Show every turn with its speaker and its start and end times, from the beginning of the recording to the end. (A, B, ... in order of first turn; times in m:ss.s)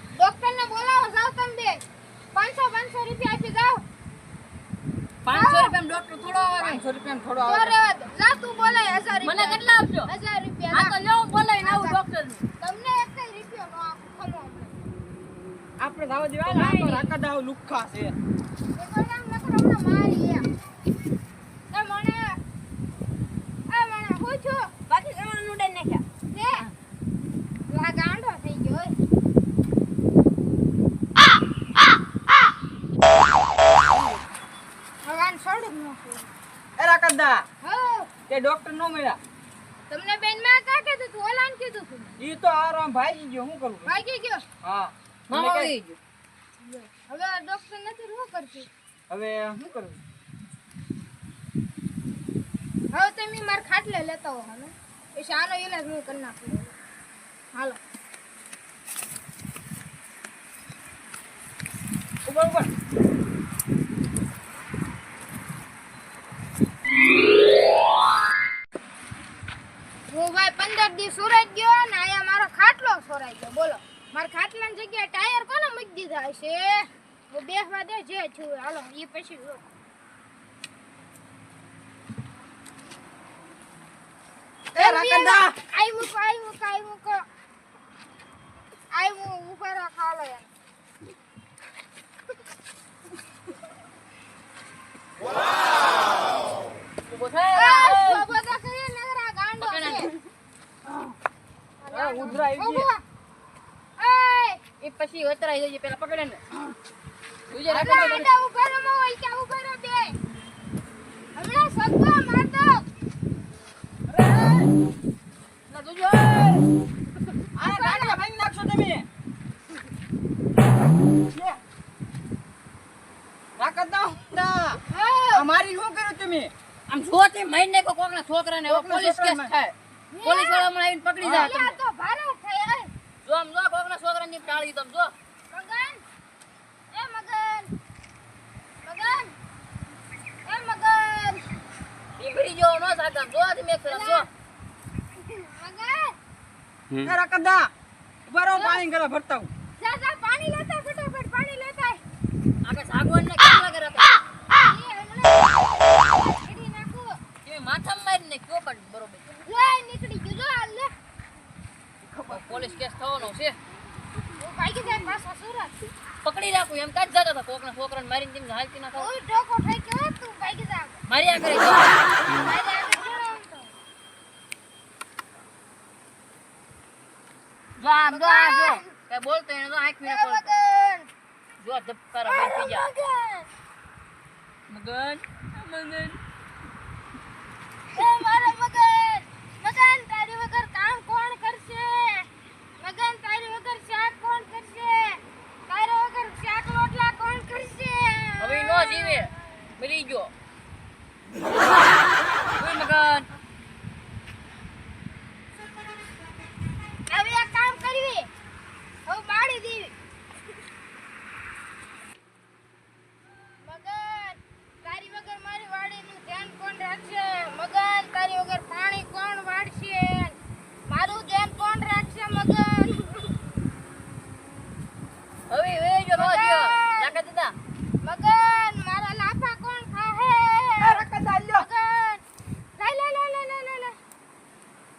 0:00.2-0:03.8 A
0:05.2-0:06.8 B
0:05.3-0:05.8 A
0:06.6-0:07.7 C
0:07.4-0:11.0 A
0:09.2-0:10.1 B
0:10.7-0:12.4 B
0:11.6-0:12.0 A
0:12.6-0:14.8 A
0:15.8-0:18.2 C
0:16.5-0:17.0 D
0:18.8-0:20.5 A
0:21.7-0:22.4 A
0:23.7-0:24.7 A
0:24.9-0:26.0 D
0:26.3-0:26.7 A
0:27.7-0:29.0 A
0:33.9-0:34.2 C
0:35.0-0:36.3 A
0:36.8-0:37.5 C
0:37.6-0:38.1 A
0:38.3-0:39.2 C
0:39.9-0:42.2 A
0:42.2-0:44.0 C
0:43.9-0:44.4 A
0:44.6-0:45.8 C
0:45.3-0:46.0 B
0:46.7-0:48.7 A
0:49.1-0:50.0 C
0:52.9-0:56.7 A
1:02.2-1:02.7 C
1:10.1-1:19.6 A
1:24.7-1:25.6 C
1:24.8-1:27.2 A
1:28.9-1:30.5 A
1:37.1-1:38.3 B
1:37.5-1:40.1 A
1:39.6-1:40.1 B
1:40.9-1:41.2 C
1:41.8-1:43.0 A
1:41.9-1:42.9 C
1:44.0-1:44.6 A
1:44.8-1:46.4 B
1:47.5-1:48.3 B
1:47.7-1:48.3 C
1:47.7-1:50.2 A
1:51.4-1:52.9 A
1:54.1-1:54.7 C
1:55.7-1:56.7 B
1:57.6-1:59.1 C
1:57.6-1:58.2 A
2:01.3-2:01.6 C
2:03.6-2:04.8 C
2:04.9-2:05.5 A
2:05.3-2:06.5 C
2:06.9-2:11.8 B
2:08.7-2:09.6 C
2:10.1-2:10.7 A
2:11.2-2:11.5 C
2:11.3-2:12.9 A
2:13.2-2:15.1 B
2:15.5-2:16.0 A
2:16.9-2:17.7 A
2:18.8-2:19.3 A
2:20.5-2:21.4 A
2:22.2-2:24.3 B
2:23.9-2:24.3 A
2:25.2-2:26.2 A
2:27.0-2:27.7 C
2:28.3-2:29.5 C
2:28.5-2:28.8 A
2:29.8-2:32.0 A
2:32.6-2:34.2 B
2:34.6-2:37.2 A
2:37.4-2:39.3 B
2:39.4-2:40.9 A
2:42.3-2:43.6 B
2:44.4-2:45.9 A
2:46.2-2:49.1 B
2:49.0-2:51.0 A
2:51.1-2:52.0 B
2:52.2-2:53.7 A
2:57.8-3:00.5 B
2:58.1-2:58.9 A
3:00.0-3:01.1 A
3:01.6-3:02.9 B
3:02.3-3:02.6 D
3:02.5-3:03.4 A
3:04.7-3:06.2 B
3:07.9-3:19.3 A
3:18.4-3:20.3 B
3:22.6-3:23.3 B
3:27.1-3:28.3 A
3:29.1-3:29.9 A
3:33.6-3:43.3 A
3:45.5-3:47.6 B
3:46.1-3:47.2 A
3:48.0-3:52.2 A
3:50.8-3:51.7 C
3:52.8-3:54.0 A